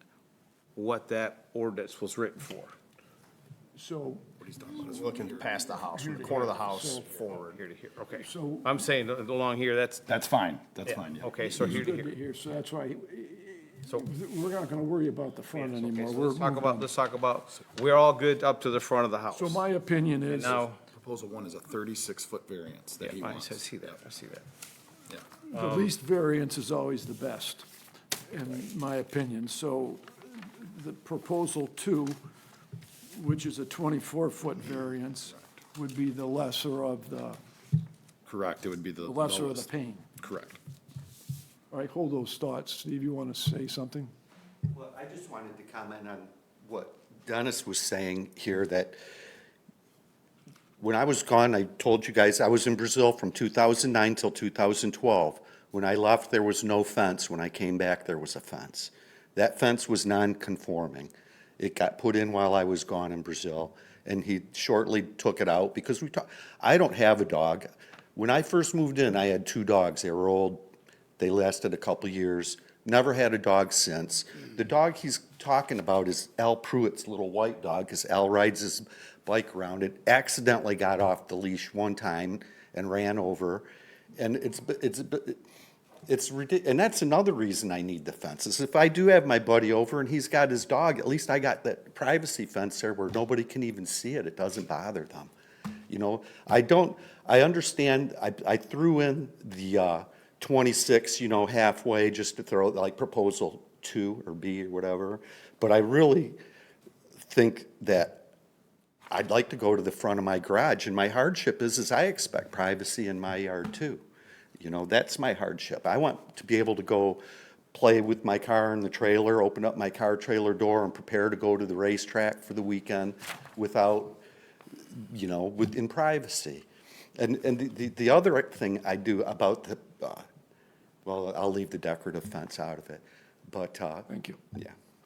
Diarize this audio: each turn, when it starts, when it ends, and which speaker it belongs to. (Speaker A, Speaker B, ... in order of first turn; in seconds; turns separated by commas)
Speaker A: 0.8-2.8, Speaker B: 3.8-5.0, Speaker C: 4.4-5.5, Speaker D: 4.9-7.6, Speaker B: 5.9-7.3, Speaker A: 7.3-10.1, Speaker B: 8.1-8.8, Speaker C: 10.1-11.9, Speaker A: 10.9-12.1, Speaker B: 11.6-16.9, Speaker A: 15.5-19.6, Speaker B: 19.3-20.7, Speaker A: 20.3-20.8, Speaker C: 20.9-23.9, Speaker A: 23.0-24.5, Speaker B: 25.5-27.6, Speaker A: 25.5-25.9, Speaker B: 28.3-32.2, Speaker B: 33.1-37.4, Speaker C: 38.3-39.7, Speaker B: 39.0-40.0, Speaker C: 40.2-40.6, Speaker B: 41.7-44.1, Speaker E: 44.7-49.0, Speaker E: 50.8-70.7, Speaker E: 71.2-83.7, Speaker E: 84.2-85.4, Speaker E: 86.1-95.3, Speaker E: 95.9-106.4, Speaker E: 107.2-108.2, Speaker E: 109.1-114.0, Speaker E: 114.6-117.2, Speaker E: 117.7-124.2, Speaker E: 124.9-126.7, Speaker E: 127.2-130.2, Speaker E: 131.1-134.7, Speaker B: 134.1-134.4